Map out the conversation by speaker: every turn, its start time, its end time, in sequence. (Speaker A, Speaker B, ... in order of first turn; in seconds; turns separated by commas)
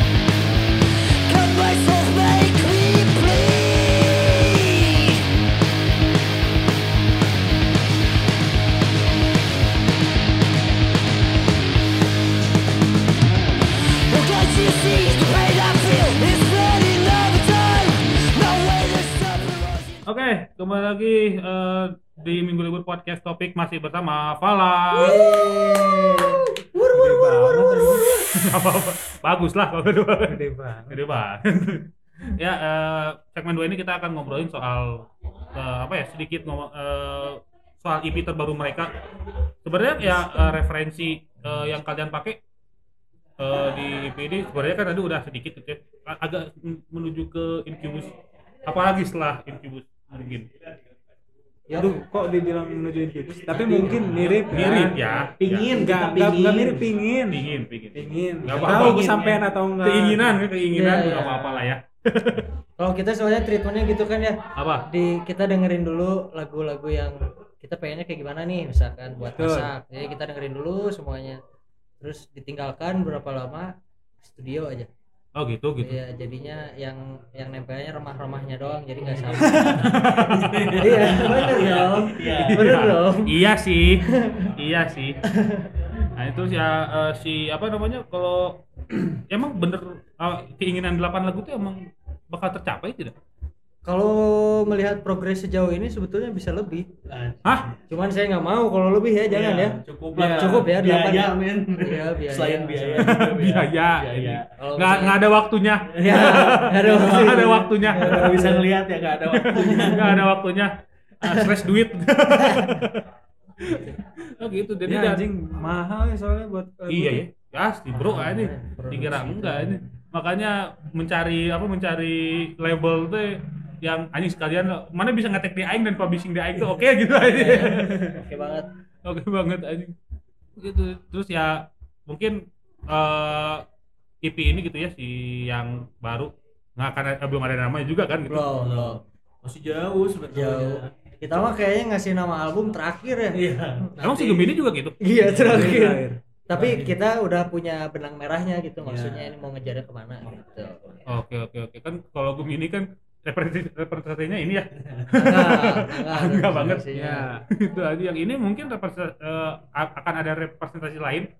Speaker A: 1.3-5.2, Speaker A: 14.1-20.1, Speaker B: 20.1-25.2, Speaker C: 24.9-28.1, Speaker D: 26.9-28.1, Speaker B: 28.4-39.1, Speaker D: 30.3-31.0, Speaker B: 39.6-42.4, Speaker B: 43.4-48.1, Speaker B: 48.6-50.5, Speaker C: 51.7-52.0, Speaker D: 51.7-55.0, Speaker E: 53.5-54.7, Speaker B: 54.5-55.7, Speaker E: 55.4-56.9, Speaker D: 55.7-60.4, Speaker B: 57.3-59.1, Speaker E: 58.5-59.5, Speaker B: 59.8-62.5, Speaker C: 60.7-61.7, Speaker C: 62.8-71.4, Speaker B: 64.6-64.9, Speaker D: 69.4-69.7, Speaker C: 72.0-74.9, Speaker B: 75.4-76.0, Speaker C: 75.8-80.2, Speaker E: 79.0-82.7, Speaker B: 79.8-81.6, Speaker C: 80.8-83.4, Speaker B: 82.5-85.2, Speaker C: 84.0-84.5, Speaker C: 85.2-85.7, Speaker B: 86.2-93.2, Speaker C: 93.8-96.9, Speaker E: 97.1-97.8, Speaker B: 97.4-97.7, Speaker C: 97.9-103.2, Speaker E: 99.3-104.5, Speaker B: 103.0-108.4, Speaker C: 104.6-105.2, Speaker E: 105.9-110.2, Speaker C: 106.0-108.7, Speaker B: 109.3-113.1, Speaker C: 109.6-110.2, Speaker C: 112.4-112.8, Speaker B: 113.6-115.2, Speaker D: 114.9-117.2, Speaker B: 116.9-128.0, Speaker C: 117.9-119.8, Speaker E: 127.3-128.1, Speaker C: 127.5-128.7, Speaker B: 129.1-129.9, Speaker B: 130.6-133.6, Speaker B: 134.2-138.5, Speaker C: 138.3-139.0, Speaker E: 138.5-141.1, Speaker C: 140.3-143.9, Speaker E: 143.3-144.6, Speaker B: 144.0-145.0, Speaker C: 145.0-150.8, Speaker E: 145.2-146.0, Speaker D: 145.4-146.2, Speaker E: 146.5-146.9, Speaker E: 148.8-149.3, Speaker B: 151.1-156.9, Speaker E: 154.8-155.2, Speaker C: 155.1-157.3, Speaker D: 156.9-157.4, Speaker B: 157.5-161.3